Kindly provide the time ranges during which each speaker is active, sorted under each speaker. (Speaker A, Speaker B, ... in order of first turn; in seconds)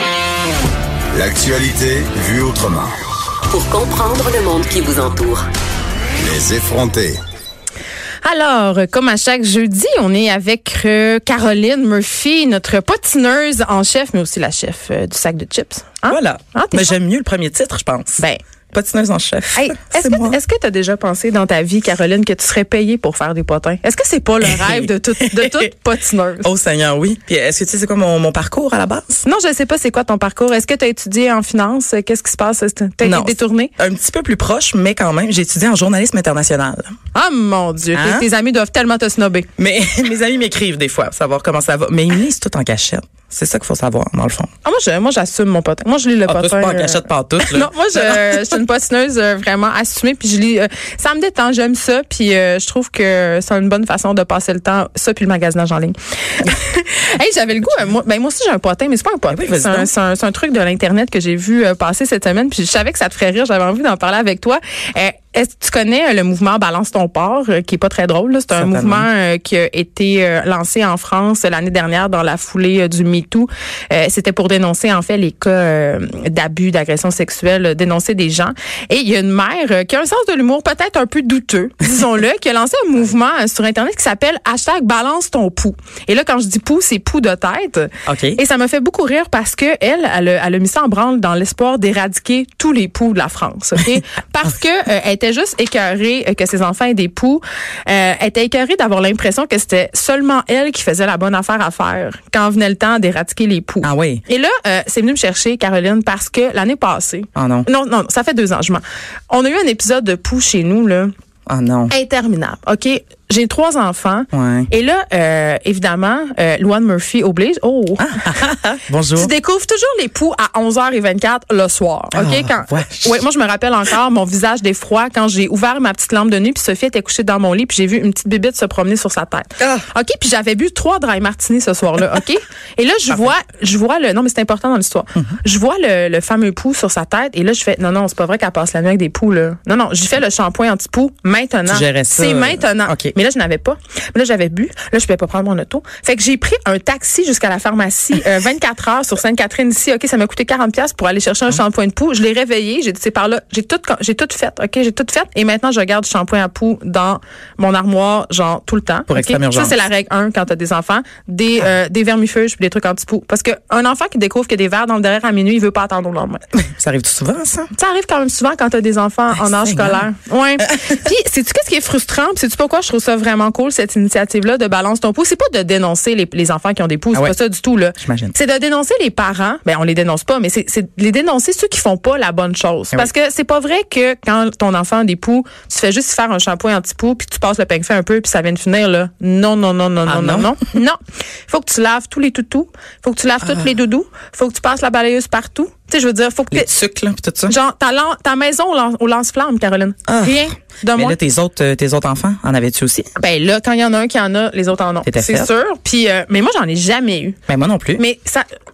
Speaker A: 1.1-2.9, 6.2-7.2
Speaker B: 3.5-5.5
Speaker C: 8.2-17.0, 19.6-26.5, 29.2-33.7, 37.1-39.5, 44.6-111.1, 111.9-118.2, 119.2-166.4, 167.8-196.7, 197.5-201.2, 203.2-207.4, 208.0-208.5
Speaker D: 16.1-20.4, 24.4-25.7, 26.4-29.2, 33.0-36.9, 37.9-38.3, 39.6-44.5, 46.3-48.6, 59.3-59.9, 68.5-69.1, 88.1-88.4, 103.8-104.2, 107.4-107.7, 111.5-111.9, 114.3-114.7, 118.0-119.3, 122.1-123.2, 129.6-129.8, 141.7-143.1, 159.1-159.8, 166.5-167.7, 169.3-170.1, 170.6-171.0, 178.0-178.4, 190.1-190.7, 196.5-197.6, 200.1-203.1, 205.1-205.5, 207.5-208.0